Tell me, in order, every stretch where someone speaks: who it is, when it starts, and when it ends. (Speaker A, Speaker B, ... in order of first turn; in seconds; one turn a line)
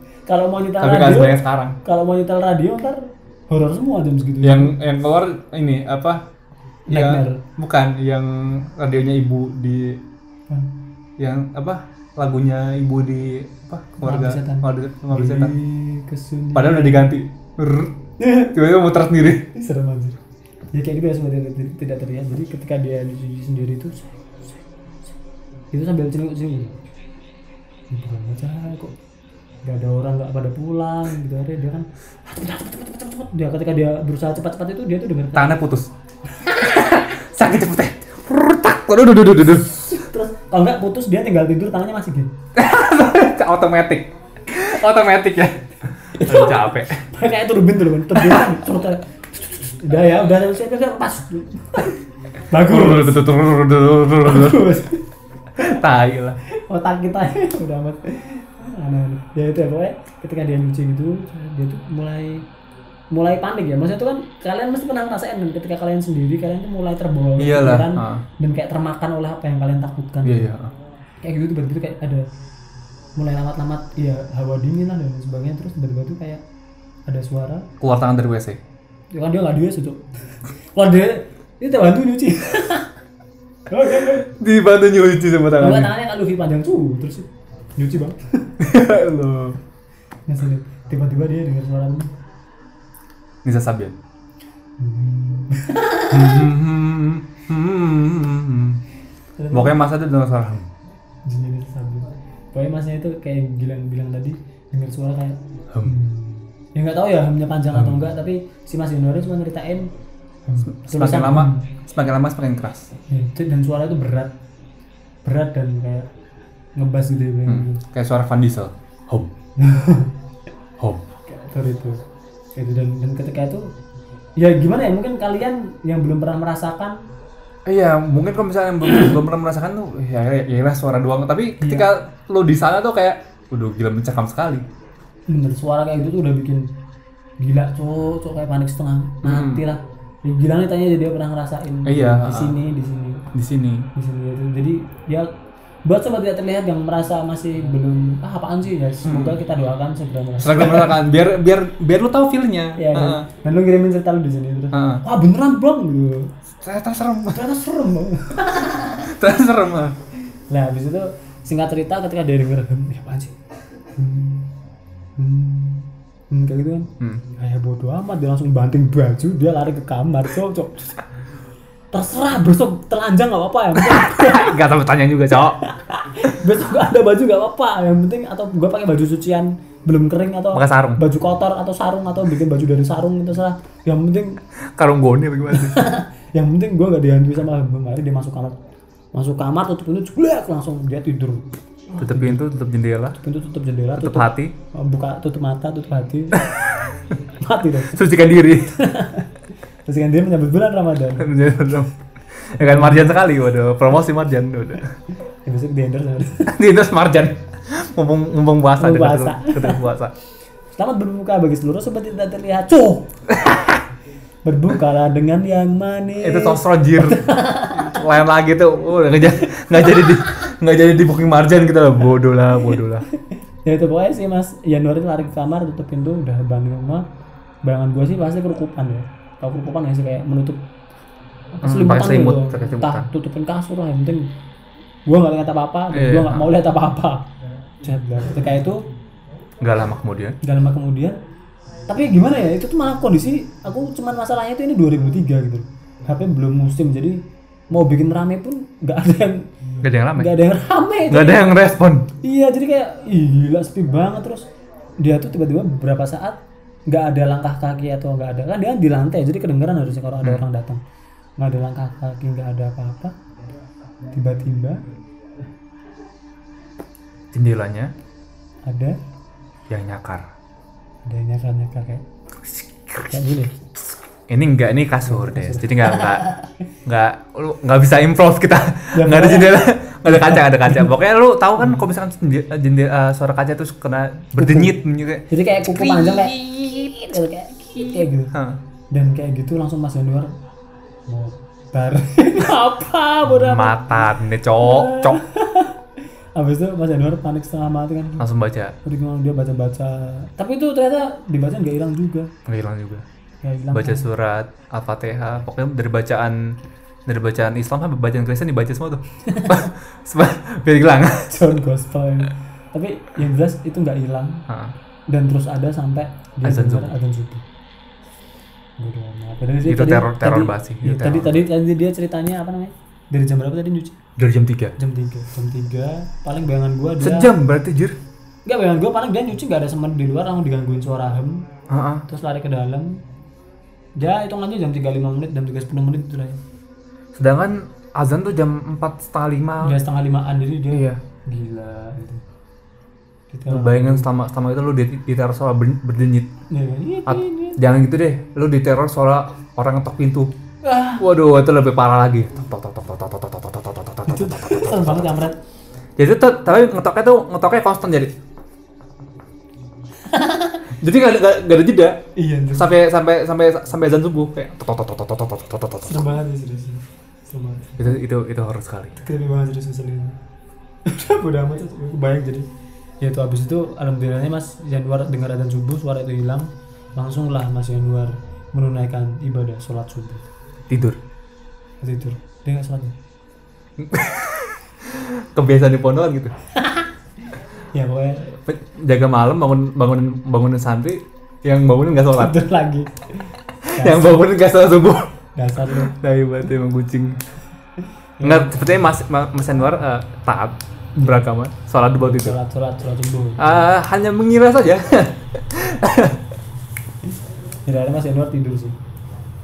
Speaker A: 0.3-4.7
Speaker B: 0.8-1.8
Speaker B: 4.4-6.2
Speaker A: 6.9-7.4
Speaker B: 6.9-10.0
Speaker B: 11.2-15.6
Speaker A: 14.0-17.1
Speaker B: 16.5-18.0
Speaker A: 18.2-18.5
Speaker B: 18.5-19.5
Speaker A: 19.5-20.2
Speaker A: 20.7-24.6
Speaker A: 25.7-26.8
Speaker A: 27.9-28.9
Speaker A: 29.6-35.6
Speaker B: 35.3-35.9
Speaker A: 36.4-36.7
Speaker B: 36.5-39.8
Speaker A: 39.4-42.3
Speaker B: 42.5-47.0
Speaker A: 46.1-53.2
Speaker B: 48.1-48.5
Speaker B: 52.6-54.8
Speaker A: 54.2-55.0
Speaker B: 55.6-56.4
Speaker A: 56.4-62.5
Speaker A: 63.1-70.5
Speaker B: 67.4-68.2
Speaker B: 70.2-70.7
Speaker A: 71.2-72.3
Speaker A: 73.2-76.4
Speaker A: 77.1-77.7
Speaker B: 77.8-78.6
Speaker A: 79.1-82.9
Speaker A: 83.7-84.3
Speaker B: 84.0-85.9
Speaker A: 85.6-88.5
Speaker B: 88.6-89.6
Speaker A: 90.3-92.1
Speaker B: 93.4-94.0
Speaker A: 94.8-96.5
Speaker B: 96.1-98.8
Speaker A: 99.4-99.8
Speaker B: 99.5-100.7
Speaker A: 101.2-109.9
Speaker B: 107.7-108.0
Speaker A: 110.5-111.7
Speaker B: 110.6-112.9
Speaker A: 113.1-114.3
Speaker A: 115.2-116.1
Speaker A: 116.8-117.8
Speaker B: 117.5-119.3
Speaker A: 119.6-120.1
Speaker B: 120.8-121.0
Speaker A: 121.2-122.0
Speaker A: 122.5-123.7
Speaker A: 124.4-127.0
Speaker B: 127.7-134.6
Speaker A: 131.6-131.9
Speaker A: 135.3-136.7
Speaker A: 137.4-143.2
Speaker B: 139.2-139.7
Speaker B: 141.8-142.6
Speaker B: 143.3-143.9
Speaker A: 143.9-145.3
Speaker A: 145.8-151.0
Speaker B: 149.0-149.4
Speaker B: 150.4-153.3
Speaker A: 152.8-156.3
Speaker B: 154.7-155.0
Speaker B: 156.5-157.4
Speaker A: 157.3-159.1
Speaker B: 158.9-160.0
Speaker A: 160.5-163.3
Speaker A: 163.9-164.5
Speaker A: 165.2-170.9
Speaker A: 171.9-174.6
Speaker B: 173.8-175.6
Speaker A: 175.6-184.4
Speaker B: 180.5-181.0
Speaker B: 184.8-185.9
Speaker A: 185.5-188.6
Speaker A: 189.1-192.4
Speaker B: 191.9-193.2
Speaker A: 193.2-196.4
Speaker B: 193.9-194.5
Speaker B: 196.3-196.8
Speaker A: 197.4-198.0
Speaker B: 197.9-198.7
Speaker A: 198.7-199.3
Speaker A: 199.8-201.3
Speaker B: 201.2-204.9
Speaker A: 202.6-203.1
Speaker A: 205.4-206.5
Speaker B: 206.5-210.1
Speaker A: 208.8-209.8
Speaker A: 210.8-213.1
Speaker B: 213.3-213.8
Speaker A: 214.4-218.0
Speaker B: 216.2-223.0
Speaker A: 223.1-227.1
Speaker A: 227.6-230.6
Speaker A: 231.6-234.3
Speaker B: 231.6-233.1
Speaker A: 235.1-237.3
Speaker B: 235.9-236.5
Speaker A: 237.8-238.8
Speaker B: 239.6-240.4
Speaker A: 240.4-241.2
Speaker A: 241.9-249.5
Speaker B: 249.8-250.3
Speaker A: 250.2-251.5
Speaker B: 251.1-252.1
Speaker A: 252.2-254.4
Speaker A: 255.0-260.8
Speaker A: 261.4-263.1
Speaker A: 264.1-264.8
Speaker B: 267.3-267.9
Speaker A: 268.6-269.0
Speaker B: 269.7-270.3
Speaker A: 271.1-272.0
Speaker B: 272.4-273.2
Speaker A: 273.0-273.6
Speaker B: 274.3-276.3
Speaker A: 275.1-276.5
Speaker B: 276.8-287.2
Speaker A: 278.9-280.9
Speaker A: 284.4-284.7
Speaker A: 285.3-288.3
Speaker B: 287.8-288.6
Speaker A: 288.9-290.3
Speaker A: 291.1-295.8
Speaker B: 293.3-295.2
Speaker A: 296.4-298.2
Speaker B: 298.2-298.8
Speaker A: 298.8-302.3
Speaker B: 302.4-303.0
Speaker A: 303.4-304.1
Speaker B: 303.7-311.5
Speaker A: 309.2-309.6
Speaker A: 311.3-314.4
Speaker B: 314.5-314.7
Speaker A: 315.1-317.4
Speaker B: 316.4-316.9
Speaker A: 318.8-324.0
Speaker B: 319.6-321.4
Speaker B: 324.2-324.7
Speaker A: 324.8-327.3
Speaker B: 327.0-328.0
Speaker A: 328.4-331.4
Speaker B: 331.7-332.0
Speaker A: 332.1-333.0
Speaker A: 334.0-336.4
Speaker B: 337.1-339.8
Speaker A: 339.6-342.2
Speaker B: 340.7-341.0
Speaker A: 343.3-344.1
Speaker B: 343.5-346.3
Speaker A: 346.5-347.6
Speaker B: 347.1-350.3
Speaker A: 350.6-351.0
Speaker B: 351.0-355.1
Speaker A: 354.1-355.4
Speaker B: 356.0-358.1
Speaker A: 360.1-360.6
Speaker B: 360.7-362.0
Speaker A: 362.1-362.7
Speaker B: 362.5-366.1
Speaker A: 365.8-367.9
Speaker B: 367.8-369.0
Speaker A: 369.0-370.2
Speaker A: 370.8-372.5
Speaker A: 373.0-380.3
Speaker B: 380.7-381.0
Speaker A: 381.8-382.9
Speaker B: 383.8-386.3
Speaker A: 386.6-386.9
Speaker A: 387.7-388.4
Speaker B: 388.4-392.4
Speaker A: 392.1-394.2
Speaker B: 393.6-395.1
Speaker A: 395.4-395.9
Speaker B: 395.7-397.2
Speaker A: 398.2-398.6
Speaker B: 398.2-402.4
Speaker A: 400.9-401.2
Speaker A: 402.0-403.7
Speaker B: 403.4-406.2
Speaker A: 407.6-408.8